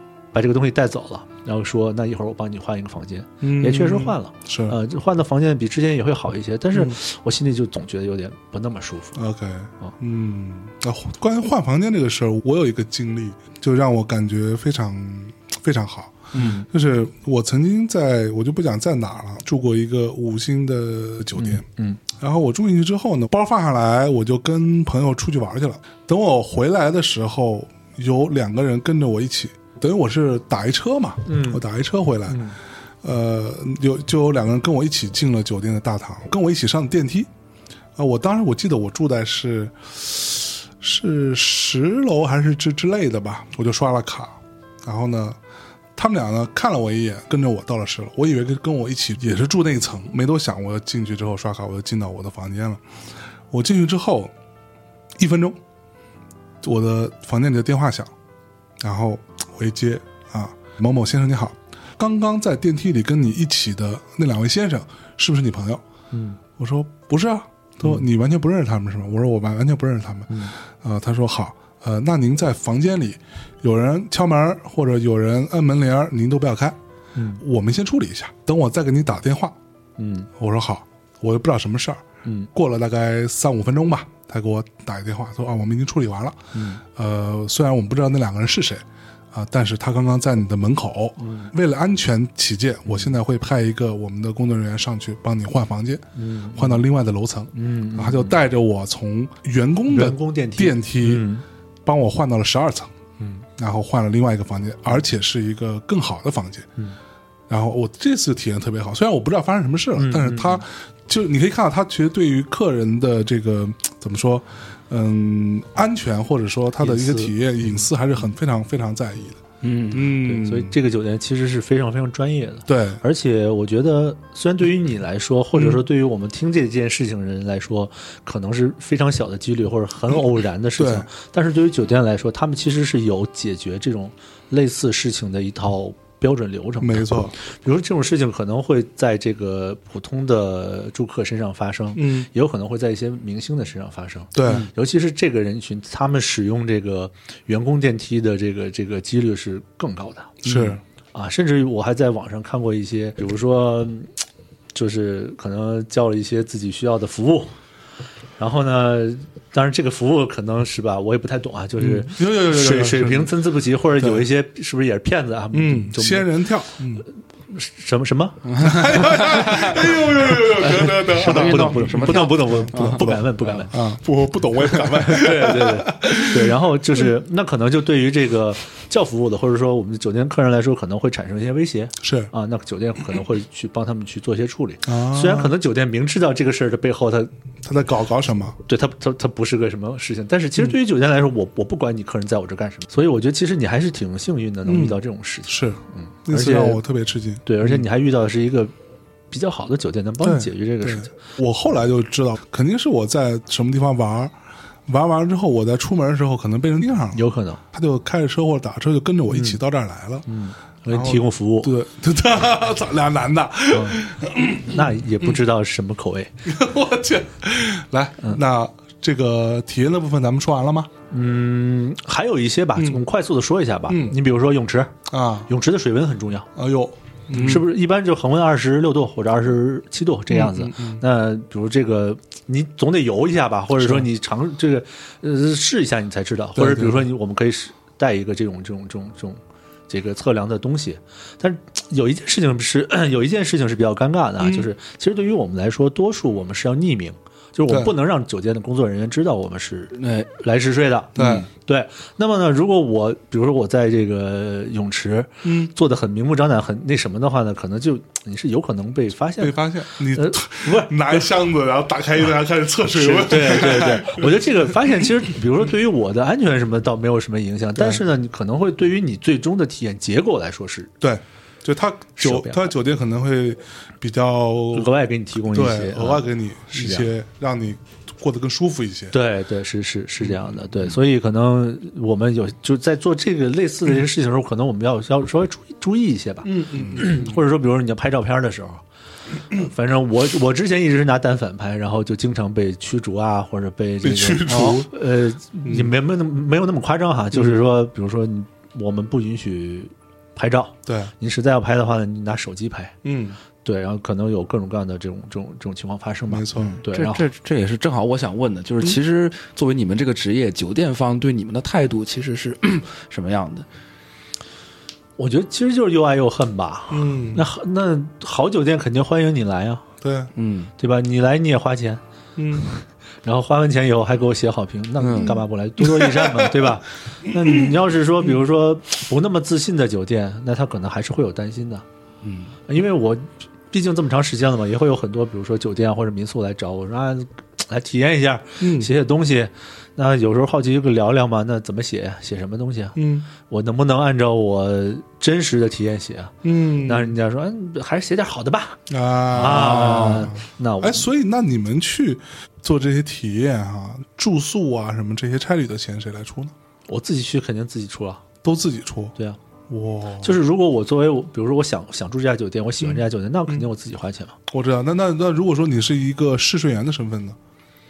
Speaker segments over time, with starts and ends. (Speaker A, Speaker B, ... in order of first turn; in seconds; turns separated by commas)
Speaker A: 0.3-9.2, Speaker B: 3.4-4.8, Speaker B: 9.1-32.4, Speaker A: 16.4-16.6, Speaker A: 21.4-22.0, Speaker A: 31.2-31.6, Speaker A: 32.3-32.6, Speaker B: 33.0-37.3, Speaker B: 38.0-45.4, Speaker B: 46.0-52.8, Speaker B: 53.5-54.3, Speaker B: 55.2-55.6, Speaker B: 56.6-58.1, Speaker B: 58.8-65.8, Speaker A: 66.1-66.4, Speaker B: 66.6-76.8, Speaker A: 70.3-70.5, Speaker A: 77.1-77.4, Speaker B: 77.4-79.5, Speaker A: 80.0-80.3, Speaker B: 80.3-96.0, Speaker A: 86.5-86.8, Speaker A: 91.2-91.5, Speaker A: 96.1-96.8, Speaker B: 96.5-101.2, Speaker A: 97.5-98.3, Speaker A: 99.9-101.4, Speaker B: 101.8-102.9, Speaker A: 103.2-103.5, Speaker B: 103.6-106.7, Speaker B: 107.5-119.4, Speaker A: 110.0-110.6, Speaker A: 116.8-117.3, Speaker A: 119.6-154.1, Speaker C: 119.7-119.9, Speaker B: 119.9-120.7, Speaker B: 122.7-123.0, Speaker B: 125.5-125.8, Speaker B: 130.8-131.1, Speaker B: 136.8-137.3, Speaker B: 141.9-142.3, Speaker B: 144.3-144.7, Speaker B: 150.4-150.8, Speaker A: 154.7-157.5, Speaker A: 158.4-166.4, Speaker B: 161.8-163.3, Speaker B: 164.0-164.2, Speaker B: 165.5-167.1, Speaker A: 167.5-169.4, Speaker C: 168.5-170.0, Speaker B: 168.6-177.1, Speaker A: 170.2-173.8, Speaker C: 171.1-173.1, Speaker A: 175.1-187.3, Speaker B: 182.0-182.3, Speaker B: 184.8-185.5, Speaker B: 187.6-188.6, Speaker A: 188.7-196.8, Speaker B: 194.6-197.8, Speaker A: 197.4-198.7, Speaker A: 199.3-201.1, Speaker B: 200.2-204.3, Speaker B: 204.9-210.3, Speaker A: 207.1-207.6, Speaker A: 209.3-209.6, Speaker A: 210.2-211.7, Speaker B: 210.9-215.3, Speaker A: 213.7-214.0, Speaker A: 214.6-216.3, Speaker B: 216.4-220.9, Speaker A: 221.1-224.9, Speaker B: 223.9-224.2, Speaker B: 225.1-225.5, Speaker A: 225.5-226.5, Speaker B: 226.6-227.7, Speaker A: 227.3-261.3, Speaker B: 230.3-231.0, Speaker B: 233.8-234.1, Speaker B: 236.6-237.1, Speaker B: 244.4-244.7, Speaker C: 250.0-250.3, Speaker B: 251.2-251.5, Speaker B: 255.4-255.7, Speaker B: 259.4-265.1, Speaker A: 262.9-270.9, Speaker B: 267.8-268.0, Speaker B: 271.0-274.9, Speaker A: 272.2-272.7, Speaker A: 274.7-277.1, Speaker B: 275.5-279.1, Speaker A: 279.1-288.8, Speaker B: 286.4-287.3, Speaker A: 289.5-302.9, Speaker B: 294.0-294.9, Speaker B: 295.6-295.9, Speaker B: 300.9-301.1, Speaker B: 303.0-303.4, Speaker A: 303.6-307.3, Speaker B: 306.3-306.8, Speaker C: 306.9-313.6, Speaker A: 315.2-319.8, Speaker B: 316.9-317.4, Speaker B: 320.0-320.3, Speaker C: 320.4-320.7, Speaker A: 320.8-322.0, Speaker B: 322.4-322.7, Speaker A: 322.5-331.8, Speaker C: 325.0-325.3, Speaker B: 325.8-326.8, Speaker B: 327.4-327.7, Speaker C: 332.2-332.5, Speaker A: 332.7-351.1, Speaker B: 338.6-338.9, Speaker B: 342.9-343.3, Speaker B: 346.4-347.1, Speaker B: 348.9-356.5, Speaker C: 349.5-350.2, Speaker A: 356.9-358.2, Speaker B: 358.4-359.1, Speaker B: 359.7-360.4, Speaker A: 360.2-364.4, Speaker B: 362.8-363.6, Speaker B: 364.5-367.4